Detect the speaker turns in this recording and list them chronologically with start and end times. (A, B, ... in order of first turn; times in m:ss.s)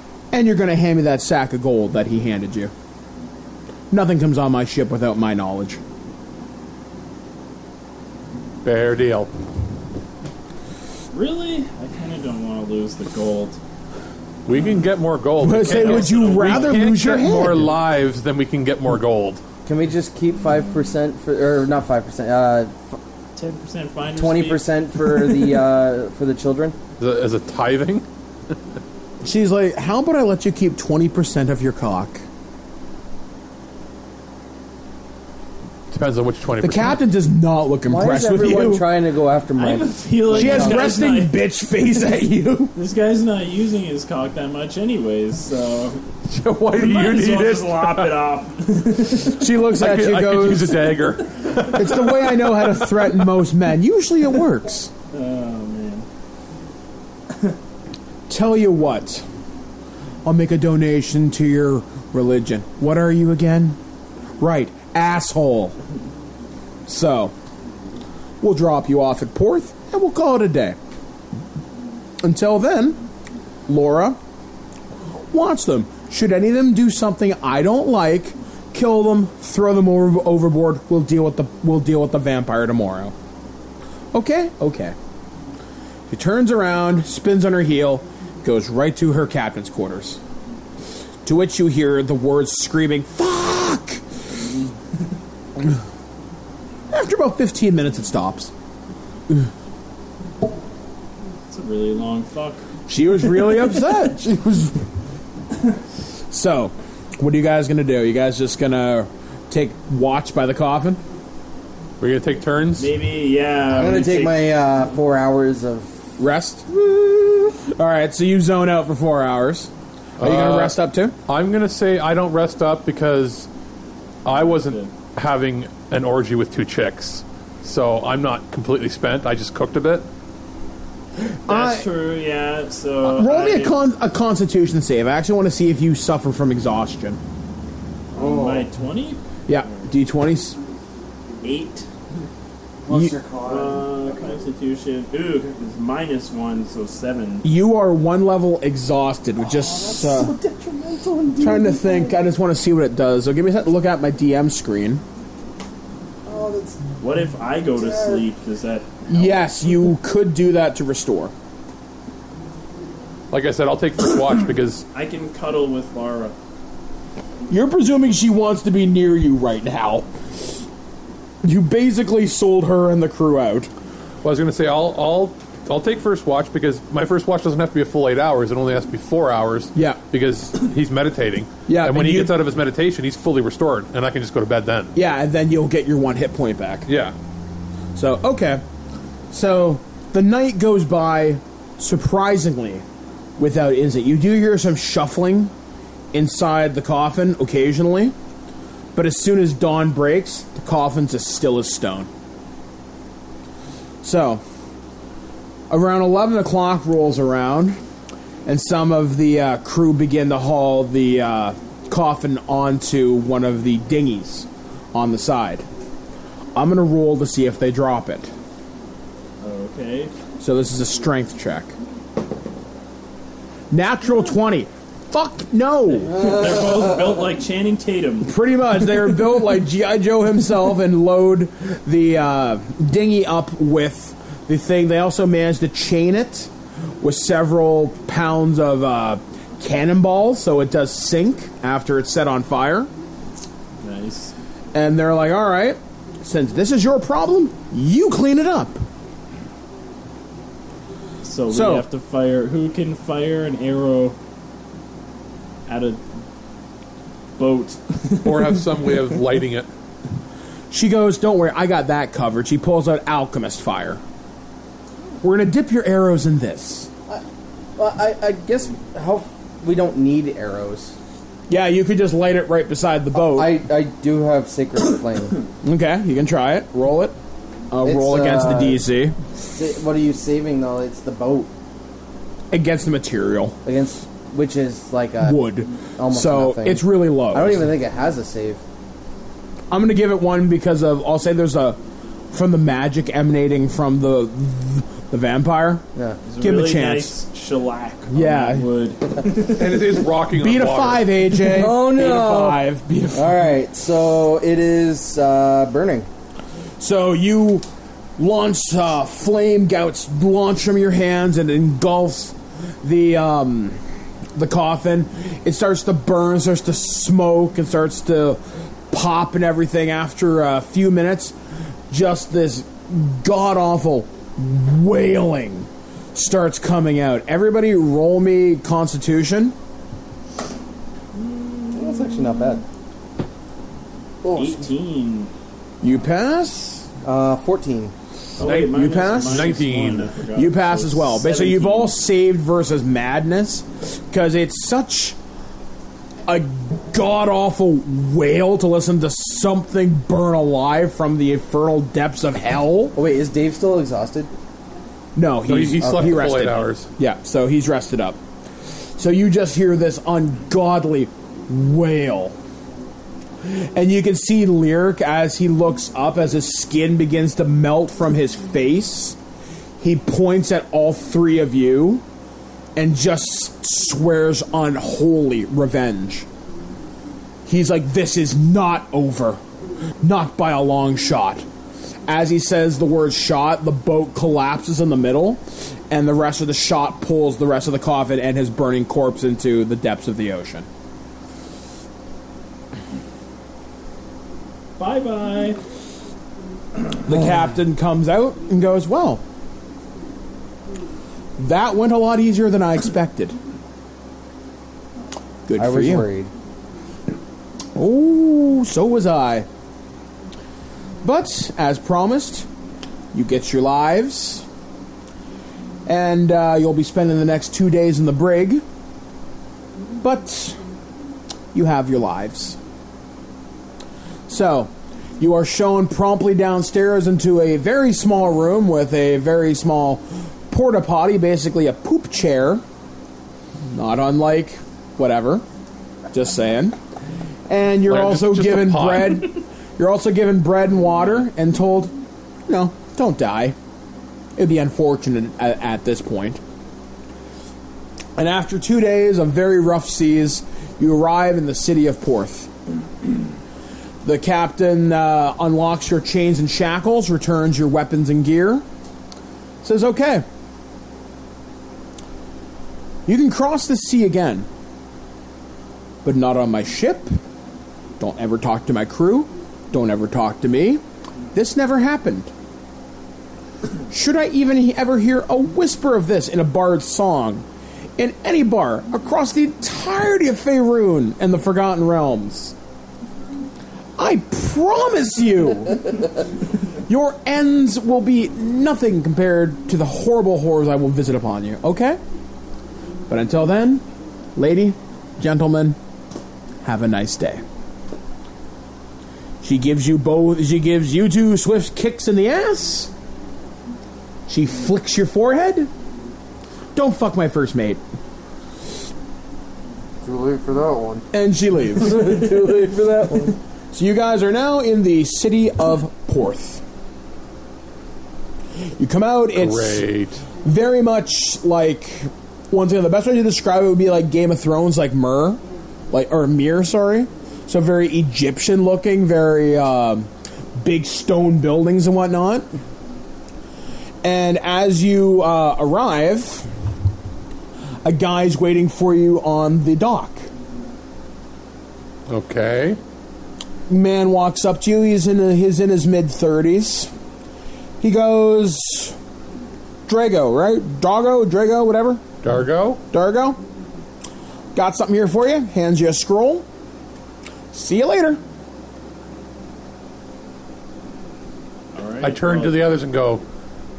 0:00.3-0:02.7 A
0:03.9-0:05.8 A
0:08.6-0:09.3 B
0:11.1-0:13.6 C
0:14.5-0:19.4 B
0:15.4-0:17.7 A
0:15.6-0:16.5 C
0:19.7-0:23.0 D
0:23.4-0:25.4 C
0:24.2-0:26.8 D
0:27.0-0:28.0 B
0:29.2-0:32.2 A
0:35.9-0:37.0 B
0:36.6-0:38.9 A
0:37.9-0:41.0 D
0:39.6-0:41.4 C
0:40.3-0:42.7 A
0:42.8-0:46.0 C
0:46.3-0:48.1 B
0:46.7-0:49.4 C
0:49.3-0:51.0 A
0:49.8-0:53.1 B
0:51.7-0:54.9 A
0:55.1-0:56.0 C
0:58.3-0:59.2 A
1:00.2-1:03.8 A
1:04.4-1:05.8 A
1:06.9-1:07.3 A
1:08.4-1:10.8 A
1:12.2-1:13.0 A
1:13.7-1:14.2 A
1:15.2-1:23.1 A
1:24.1-1:25.0 A
1:26.1-1:30.2 A
1:31.2-1:34.0 A
1:36.9-1:38.5 A
1:41.5-1:42.7 C
1:42.9-1:44.8 A
1:46.3-1:51.0 A
1:52.0-1:52.9 B
1:52.8-1:54.4 C
1:53.7-1:56.0 D
1:56.2-2:01.2 A
2:00.2-2:00.8 B
2:01.3-2:03.5 B
2:04.2-2:10.1 B
2:04.3-2:04.9 C
2:11.5-2:11.9 A
2:11.5-2:13.8 C
2:13.0-2:17.2 A
2:18.1-2:18.7 D
2:18.2-2:19.9 C
2:19.5-2:20.6 A
2:21.4-2:21.9 C
2:22.9-2:24.2 D
2:22.9-2:23.2 A
2:23.4-2:27.5 C
2:27.4-2:30.3 A
2:29.4-2:32.2 D
2:31.4-2:35.0 A
2:36.3-2:36.9 D
2:37.0-2:39.4 C
2:37.7-2:38.3 D
2:39.1-2:41.3 A
2:43.3-2:44.8 B
2:44.9-2:46.4 C
2:47.5-2:50.5 A
2:51.4-2:53.7 A
2:54.2-3:04.9 B
3:01.7-3:02.4 A
3:05.0-3:06.9 A
3:06.9-3:07.1 B
3:08.0-3:08.6 A
3:09.3-3:12.8 A
3:13.4-3:15.5 A
3:16.1-3:18.1 A
3:19.0-3:22.1 A
3:24.0-3:24.4 A
3:25.7-3:27.8 A
3:28.5-3:35.6 A
3:36.6-3:38.3 A
3:39.4-3:40.1 C
3:40.4-3:41.7 A
3:43.7-3:46.4 A
3:46.1-3:48.3 C
3:48.2-4:02.9 A
4:03.8-4:04.3 C
4:04.7-4:08.8 A
4:11.2-4:14.2 C
4:11.5-4:11.9 A
4:15.7-4:16.0 C
4:17.4-4:18.7 C
4:18.2-4:19.7 B
4:20.7-4:24.0 A
4:25.2-4:26.9 A
4:27.8-4:31.0 D
4:31.5-4:33.5 A
4:33.2-4:35.4 D
4:35.6-4:37.2 A
4:37.7-4:39.2 A
4:37.8-4:38.8 D
4:39.5-4:41.5 D
4:42.5-4:43.6 A
4:43.6-4:45.4 D
4:45.2-4:47.7 A
4:46.0-4:48.6 D
4:49.7-4:51.8 A
4:52.3-4:55.8 A
4:56.2-4:59.8 C
4:56.4-4:57.1 A
4:58.1-4:58.7 A
4:59.4-5:01.1 B
5:00.4-5:03.5 A
5:01.4-5:02.6 D
5:03.1-5:06.1 D
5:06.8-5:07.6 A
5:08.2-5:13.8 A
5:14.4-5:21.4 A
5:21.9-5:29.6 A
5:31.2-5:32.5 C
5:31.7-5:32.6 D
5:34.2-5:34.6 D
5:34.3-5:35.3 C
5:35.8-5:36.9 A
5:37.0-5:37.9 D
5:38.4-5:41.9 C
5:38.4-5:39.6 A
5:38.5-5:40.1 B
5:40.4-5:45.2 A
5:46.3-5:53.0 A
5:53.0-5:54.3 D
5:55.2-5:58.2 A
5:55.4-5:56.9 B
5:59.0-6:02.4 A
6:03.4-6:09.2 A
6:09.8-6:12.0 A
6:12.8-6:16.3 A
6:17.5-6:19.4 A
6:20.0-6:21.5 A
6:22.1-6:30.7 A
6:34.8-6:35.6 C
6:37.0-6:39.2 A
6:41.4-6:43.4 A
6:45.5-6:46.1 A
6:45.6-6:46.3 D
6:47.8-6:49.5 A
6:51.0-6:52.5 A
6:53.1-6:54.4 A
6:55.9-6:58.6 A
7:00.0-7:00.6 A
7:01.5-7:02.6 A
7:04.3-7:12.6 A
7:13.7-7:15.4 A
7:16.1-7:16.8 A
7:17.5-7:21.9 A
7:17.9-7:19.4 B
7:22.5-7:23.6 A
7:24.4-7:26.4 A
7:28.2-7:32.5 A
7:34.0-7:38.6 A
7:39.6-7:40.2 A
7:43.1-7:44.5 A
7:46.0-7:47.1 A
7:48.0-7:50.8 A
7:51.3-7:52.3 A
7:53.9-7:57.4 A
7:58.0-8:02.6 A
8:04.0-8:06.1 A
8:06.9-8:12.0 A
8:13.1-8:13.8 A
8:14.4-8:15.8 A
8:16.6-8:17.4 A
8:19.4-8:22.9 A
8:24.3-8:25.7 A
8:26.8-8:27.8 A
8:30.0-8:31.0 D
8:31.1-8:32.8 A
8:31.8-8:33.4 D
8:33.7-8:36.6 A
8:38.8-8:39.8 A
8:39.4-8:40.2 B
8:40.4-8:52.5 A
8:54.0-8:56.5 A
8:57.8-9:00.3 A
9:02.1-9:02.8 B
9:03.7-9:06.9 A
9:07.8-9:09.0 A
9:09.9-9:12.0 A
9:12.2-9:12.8 B
9:12.9-9:13.4 A
9:14.6-9:16.5 A
9:17.5-9:18.2 A
9:21.7-9:22.7 C
9:22.0-9:23.2 B